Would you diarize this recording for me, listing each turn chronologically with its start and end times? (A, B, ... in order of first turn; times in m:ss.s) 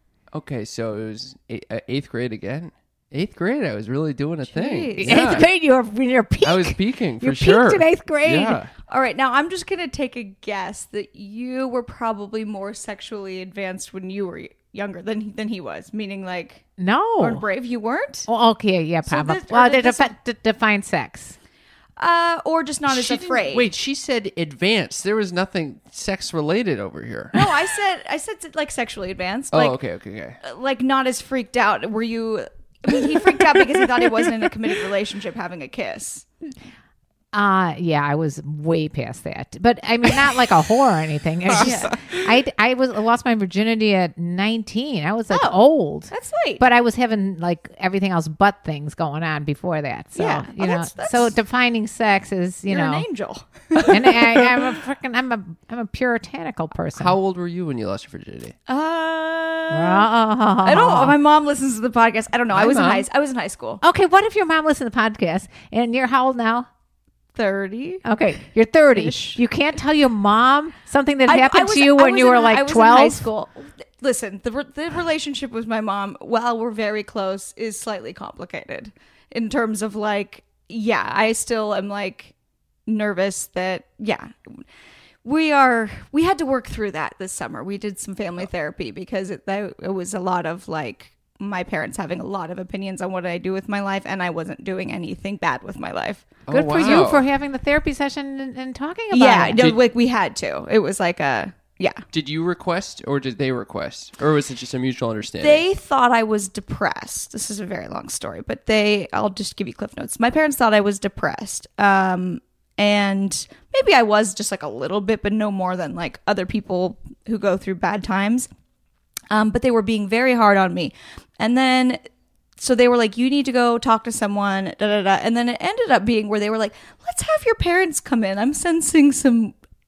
0:00.3-0:05.5 A
0:04.5-0:05.4 B
0:05.0-0:08.6 C
0:06.4-0:08.7 A
0:08.9-0:16.6 B
0:16.8-0:17.4 C
0:17.2-0:18.3 B
0:18.3-0:21.4 C
0:19.0-0:20.1 B
0:22.0-0:23.7 B
0:22.9-0:27.5 A
0:27.3-0:29.8 B
0:29.5-0:30.4 A
0:30.4-0:36.2 B
0:33.4-0:33.9 A
0:37.3-0:53.0 C
0:41.5-0:42.0 B
0:41.5-0:42.2 A
0:45.3-0:46.6 B
0:50.2-0:51.3 B
0:52.7-0:54.6 B
0:53.9-0:57.2 C
0:57.0-0:58.6 A
0:58.7-1:00.0 B
0:59.7-1:01.2 C
1:00.6-1:03.8 B
1:02.5-1:03.0 A
1:03.8-1:06.7 C
1:07.3-1:08.0 B
1:08.0-1:13.2 C
1:08.9-1:09.4 B
1:11.2-1:22.3 B
1:22.9-1:24.6 B
1:25.2-1:36.3 B
1:36.5-1:37.2 A
1:36.5-1:39.6 C
1:39.1-1:42.0 B
1:42.1-1:45.6 A
1:45.4-1:58.5 B
1:59.3-2:02.0 B
2:02.6-2:09.6 B